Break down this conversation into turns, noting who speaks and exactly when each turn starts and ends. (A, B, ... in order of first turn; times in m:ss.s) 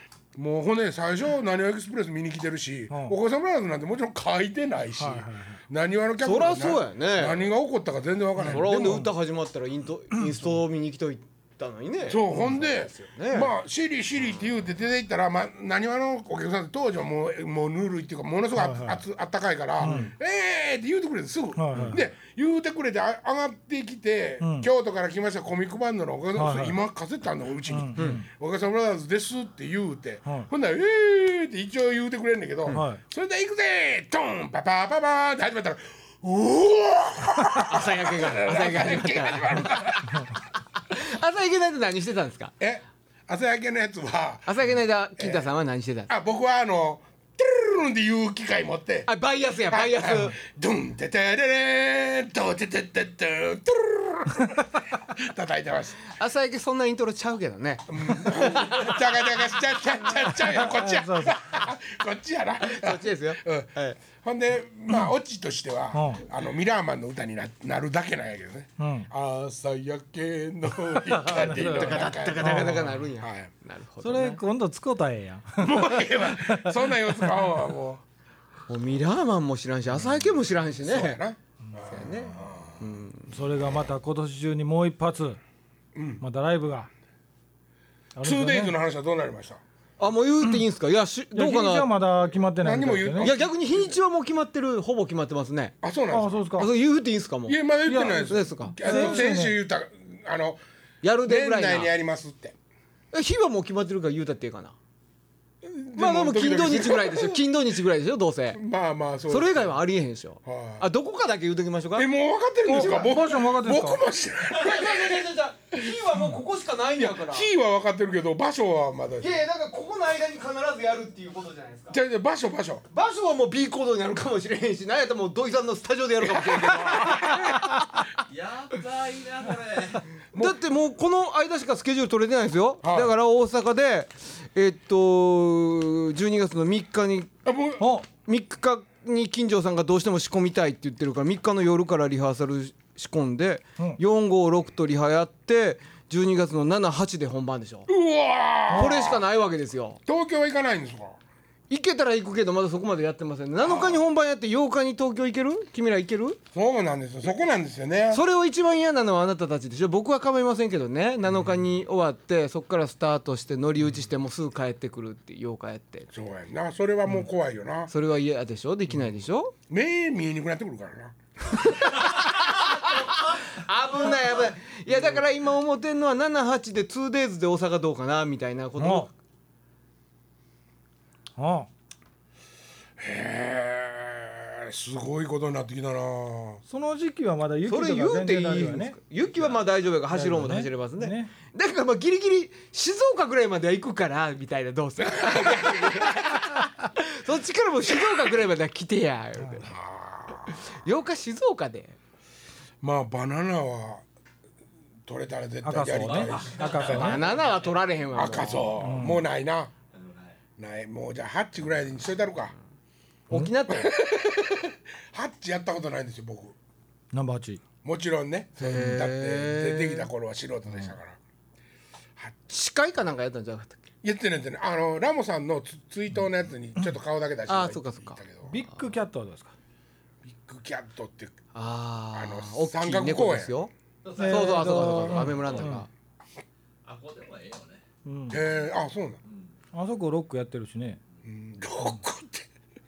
0:00.3-0:09.1 A
0:02.9-0:03.2 B
0:05.0-0:05.6 B
0:06.2-0:07.5 C
0:08.4-0:09.1 B
0:08.4-0:13.5 C
0:12.1-0:40.2 A
0:18.6-0:19.0 B
0:19.8-0:20.1 B
0:19.8-0:20.1 C
0:21.6-0:22.0 B
0:24.4-0:24.7 B
0:26.4-0:26.8 B
0:27.7-0:28.3 B
0:32.7-0:33.0 B
0:37.6-0:42.6 C
0:42.6-0:44.6 A
0:44.5-0:46.1 C
0:45.2-0:45.5 A
0:46.1-0:49.1 A
0:49.1-0:50.4 C
0:49.7-0:56.0 A
0:56.1-0:59.1 C
0:57.9-1:13.5 A
1:00.5-1:01.4 B
1:02.6-1:04.0 C
1:05.9-1:06.2 B
1:08.8-1:09.1 B
1:11.0-1:13.1 B
1:11.6-1:14.4 C
1:14.0-1:17.4 B
1:15.6-1:18.0 A
1:18.7-1:21.2 C
1:20.8-1:22.9 A
1:21.8-1:23.4 C
1:23.3-1:25.4 B
1:26.0-1:26.2 A
1:26.2-1:26.9 B
1:28.2-1:28.7 B
1:28.2-1:29.6 A
1:30.0-1:31.9 C
1:31.4-1:33.3 B
1:32.6-1:34.0 A
1:33.2-1:35.7 C
1:35.8-1:36.6 A
1:36.1-1:36.7 B
1:36.6-1:39.3 C
1:37.5-1:40.6 A
1:37.9-1:39.6 B
1:41.0-1:41.9 C
1:41.2-1:42.6 A
1:43.1-1:44.8 C
1:45.6-1:47.4 A
1:46.0-1:48.6 C
1:48.5-1:49.8 A
1:49.3-1:52.1 C
1:50.4-1:50.9 A
1:52.0-1:56.0 A
1:52.7-1:54.0 B
1:54.5-1:57.5 C
1:57.1-1:59.4 A
1:59.2-2:02.0 C
2:01.9-2:02.9 A
2:02.9-2:08.2 C
2:06.6-2:07.7 A
2:08.2-2:10.1 D
2:10.3-2:17.3 C
2:12.8-2:13.1 A
2:17.4-2:17.9 A
2:17.8-2:18.1 B
2:18.2-2:27.9 C
2:27.9-2:29.2 A
2:28.7-2:30.0 C
2:30.1-2:31.2 A
2:31.7-2:36.4 C
2:33.6-2:34.0 A
2:36.5-2:38.2 A
2:38.1-2:46.1 C
2:46.1-2:47.9 A
2:47.9-2:49.5 C
2:49.7-2:51.7 A
2:51.5-2:59.1 C
2:52.2-2:54.5 D
2:58.8-2:59.1 B
3:01.4-3:01.7 B
3:03.0-3:06.6 A
3:06.7-3:09.0 B
3:07.7-3:19.7 C
3:10.1-3:11.3 B
3:15.1-3:16.1 A
3:19.6-3:20.6 A
3:20.5-3:22.0 C
3:22.8-3:24.0 A
3:25.1-3:27.0 A
3:25.6-3:27.3 B
3:26.0-3:27.8 D
3:26.8-3:28.8 C
3:28.1-3:29.7 A
3:28.8-3:29.2 B
3:29.9-3:30.4 D
3:30.6-3:32.6 A
3:33.3-3:33.6 B
3:33.3-3:33.9 C
3:33.7-3:36.6 A
3:37.1-3:37.6 B
3:37.8-3:41.2 A
3:38.6-3:40.1 C
3:42.5-3:43.9 C
3:44.0-3:48.6 A
3:47.5-3:48.2 C
3:48.5-3:49.5 B
3:50.2-3:51.4 A
3:51.5-3:55.9 C
3:52.1-3:53.6 A
3:54.0-3:55.8 D
3:54.2-3:55.9 B
3:56.8-3:57.8 D
3:58.0-3:58.4 B
3:58.3-3:59.2 A
3:59.2-3:59.5 D
3:59.7-4:01.0 B
4:01.2-4:02.5 A